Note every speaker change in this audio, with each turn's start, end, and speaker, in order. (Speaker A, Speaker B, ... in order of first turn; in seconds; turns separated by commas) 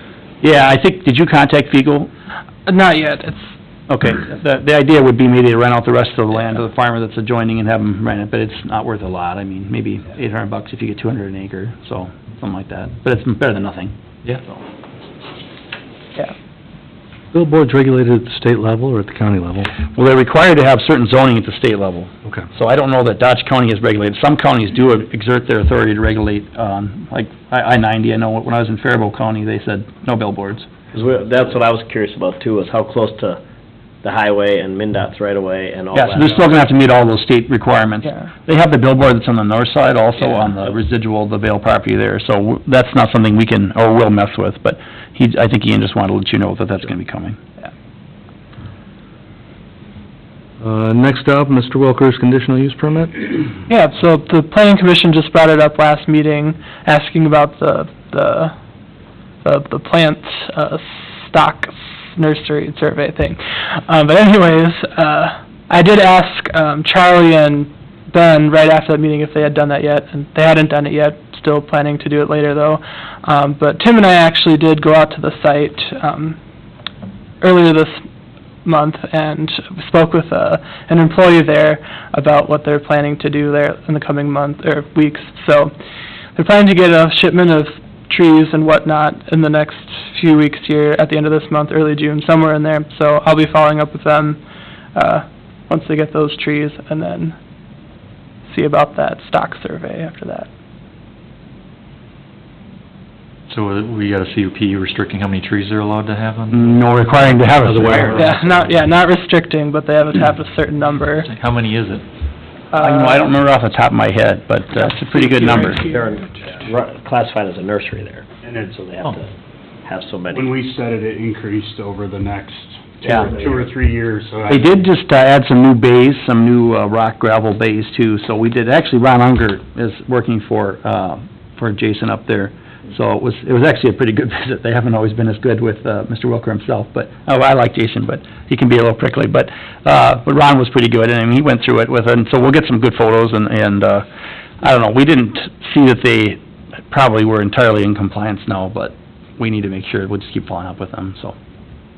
Speaker A: 0.4-2.1, Speaker B: 2.7-3.4, Speaker A: 3.9-13.9, Speaker C: 17.3-19.7, Speaker A: 19.8-30.8, Speaker D: 30.9-33.4, Speaker D: 34.0-36.7, Speaker A: 35.9-47.4, Speaker C: 50.6-53.3, Speaker B: 53.7-58.5, Speaker B: 59.4-76.4, Speaker B: 77.4-78.0, Speaker B: 78.6-85.7, Speaker B: 86.4-94.4, Speaker B: 95.0-97.4, Speaker B: 98.5-100.5, Speaker E: 103.5-106.8, Speaker A: 106.5-108.2, Speaker C: 107.6-108.8, Speaker E: 107.7-108.4, Speaker B: 108.1-111.3, Speaker E: 111.2-112.1, Speaker B: 112.7-113.4, Speaker A: 112.8-115.9, Speaker B: 114.7-116.4, Speaker D: 116.7-119.3, Speaker F: 118.4-118.8, Speaker D: 119.9-120.6, Speaker F: 120.3-124.9, Speaker A: 124.5-144.1, Speaker A: 144.6-146.4, Speaker A: 146.9-151.3